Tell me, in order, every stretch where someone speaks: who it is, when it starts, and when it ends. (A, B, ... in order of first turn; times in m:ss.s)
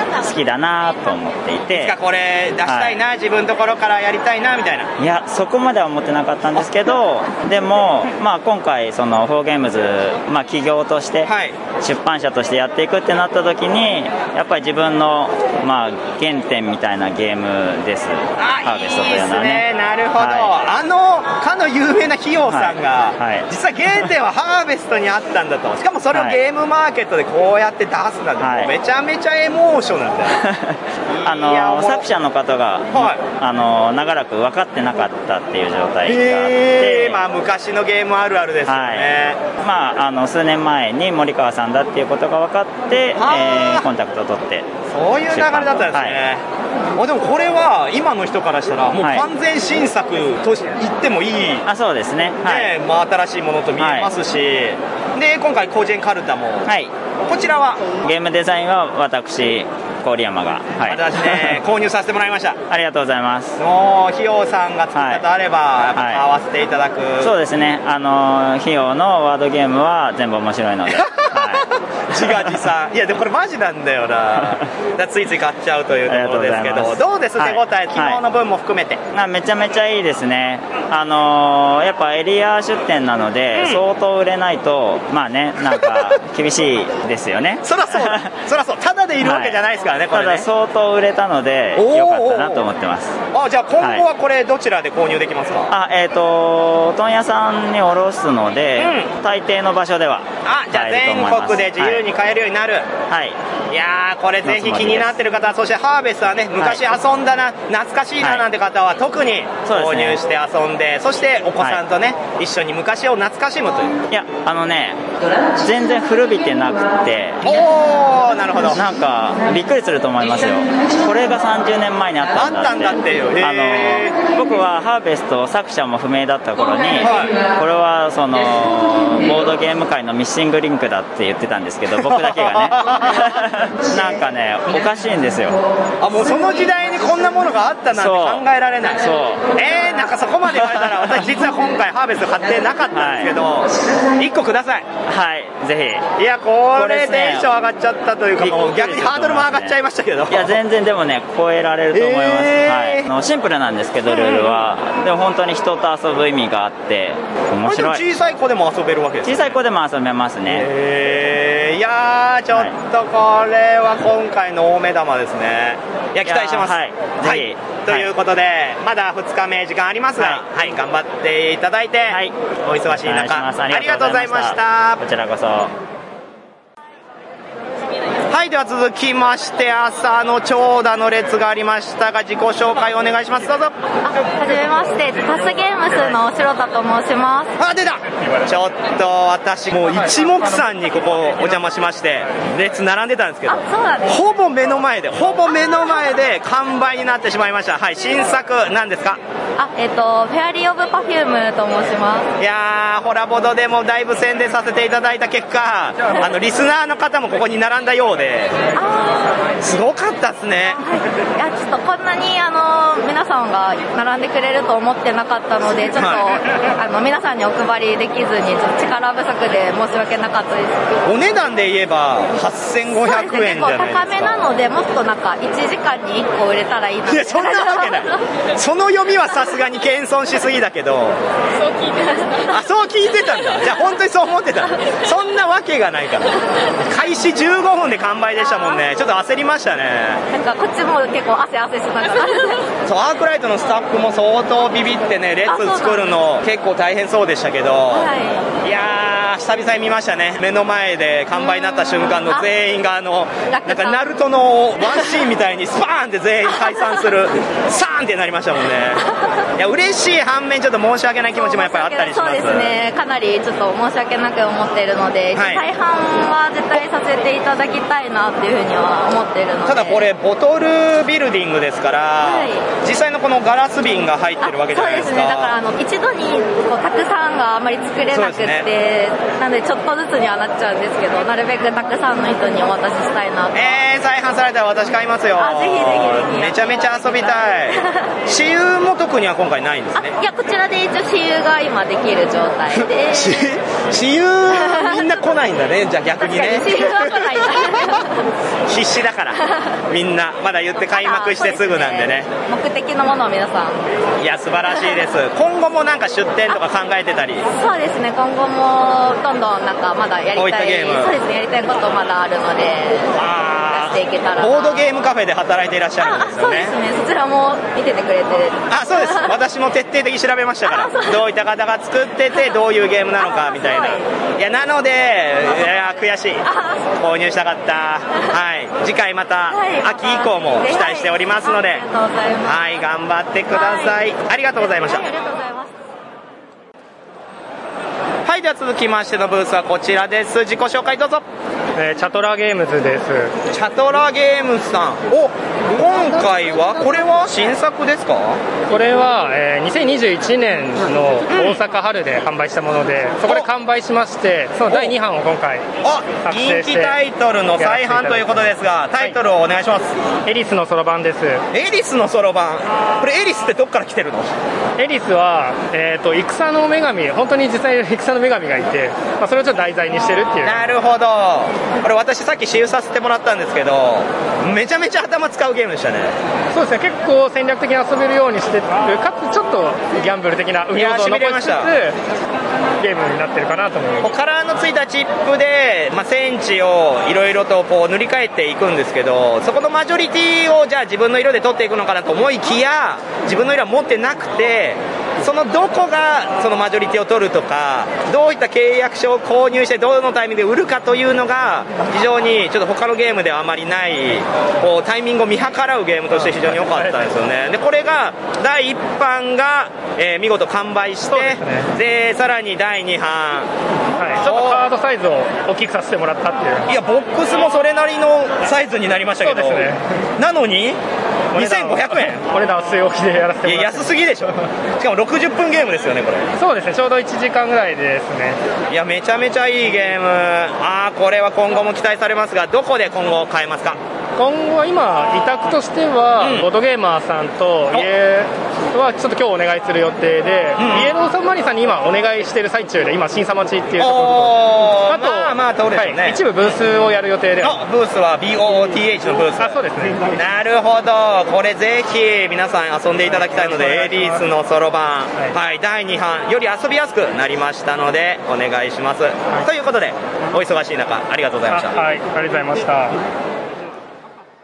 0:00.2-0:01.9 A
0:01.7-0:04.9 B
0:02.7-0:03.0 A
0:05.0-0:19.6 A
0:11.3-0:11.6 B
0:18.4-0:30.4 B
0:20.2-0:20.5 A
0:22.5-0:23.5 A
0:28.4-0:28.7 A
0:30.4-0:37.2 A
0:31.1-0:32.0 B
0:32.9-0:33.2 B
0:36.1-0:39.4 B
0:38.7-0:39.1 A
0:39.6-0:44.7 A
0:43.2-0:43.9 B
0:44.9-0:46.4 B
0:45.3-0:46.2 A
0:47.0-0:51.6 B
0:49.0-0:49.2 A
0:51.6-0:52.7 A
0:52.5-0:56.7 B
0:53.8-0:54.1 A
0:56.7-0:56.9 A
0:57.2-0:57.8 B
0:58.0-1:01.5 A
1:00.9-1:02.6 B
1:02.7-1:03.6 A
1:03.6-1:07.3 B
1:05.0-1:05.2 A
1:06.0-1:06.2 A
1:07.2-1:11.7 A
1:12.1-1:19.0 B
1:16.1-1:18.2 A
1:19.1-1:28.3 A
1:23.6-1:23.8 B
1:27.6-1:30.4 B
1:29.2-1:29.6 A
1:30.1-1:33.2 A
1:31.8-1:32.6 B
1:33.3-1:35.7 B
1:35.7-1:42.0 A
1:38.8-1:39.1 B
1:40.4-1:42.9 B
1:43.1-1:43.4 A
1:43.7-1:54.0 B
1:44.4-1:45.2 A
1:49.7-1:50.2 A
1:54.1-1:55.0 A
1:55.6-1:57.6 A
1:57.4-1:58.8 B
1:58.7-2:15.6 A
2:02.3-2:04.2 B
2:07.0-2:07.4 B
2:12.0-2:13.3 B
2:16.0-2:19.0 B
2:18.0-2:18.4 A
2:19.0-2:19.5 A
2:19.6-2:24.9 B
2:22.9-2:23.3 A
2:25.1-2:26.1 A
2:26.2-2:30.6 B
2:26.8-2:27.5 A
2:28.4-2:29.8 A
2:30.3-2:38.0 A
2:31.9-2:33.1 B
2:34.1-2:34.7 B
2:37.7-2:39.5 B
2:39.2-2:40.7 A
2:40.5-2:55.0 B
2:46.2-2:48.1 A
2:50.2-2:50.4 A
2:52.1-2:52.4 A
2:52.9-2:55.7 A
2:58.3-3:03.8 B
3:04.1-3:07.5 C
3:07.6-3:19.2 B
3:13.5-3:14.0 C
3:19.6-3:22.2 C
3:22.4-3:28.5 B
3:28.8-3:29.2 C
3:29.6-3:30.8 B
3:30.8-3:40.8 C
3:35.9-3:36.3 B
3:41.0-3:44.5 B
3:43.0-3:48.0 C
3:47.1-3:51.2 B
3:52.5-4:00.2 B
4:00.4-4:02.6 C
4:02.8-4:08.1 B
4:05.5-4:06.1 C
4:08.0-4:08.4 C
4:08.6-4:19.0 B
4:13.5-4:14.0 C
4:19.6-4:22.8 B
4:21.4-4:30.0 C
4:25.3-4:25.7 B
4:29.6-4:35.6 B
4:32.3-4:32.6 C
4:34.7-4:43.8 C
4:38.1-4:38.7 B
4:43.5-4:50.2 B
4:45.4-4:47.3 C
4:50.2-4:53.1 C
4:52.7-4:57.8 B
4:56.3-4:57.5 C
4:58.7-5:02.3 B
5:00.9-5:03.8 C
5:04.2-5:07.5 B
5:07.6-5:13.0 C
5:10.3-5:11.2 B
5:13.2-5:16.8 B
5:13.8-5:14.8 C
5:16.1-5:18.6 C
5:18.7-5:26.5 B
5:23.5-5:24.0 C
5:27.0-5:31.9 B
5:29.6-5:32.5 C
5:32.4-5:35.1 B
5:33.6-5:33.9 C
5:35.0-5:35.6 C
5:38.3-5:41.2 B
5:41.8-5:43.3 D
5:43.5-5:48.4 B
5:48.7-5:55.7 D
5:51.3-5:51.6 B
5:54.7-5:55.0 B
5:55.8-5:59.9 B
5:56.3-5:57.0 D
5:57.6-5:59.2 D
6:00.3-6:01.4 D
6:01.5-6:04.3 B
6:04.8-6:10.7 D
6:10.4-6:16.1 B
6:16.5-6:22.0 D
6:20.7-6:21.7 B
6:22.8-6:24.1 D
6:24.0-6:53.5 B
6:46.2-6:47.0 D
6:51.1-6:51.7 D
6:54.0-6:56.7 D
6:54.2-6:54.6 B
6:56.7-7:00.8 B
6:59.2-6:59.8 D
7:01.3-7:03.9 D
7:01.4-7:02.2 B
7:03.4-7:06.3 B
7:06.4-7:08.4 D
7:08.7-7:13.8 B
7:14.2-7:27.6 D
7:16.2-7:16.5 B
7:20.6-7:20.9 B
7:23.8-7:26.2 B
7:27.4-7:29.6 B
7:29.4-7:30.1 D
7:30.1-7:41.8 B
7:33.1-7:34.2 D
7:41.5-7:43.0 D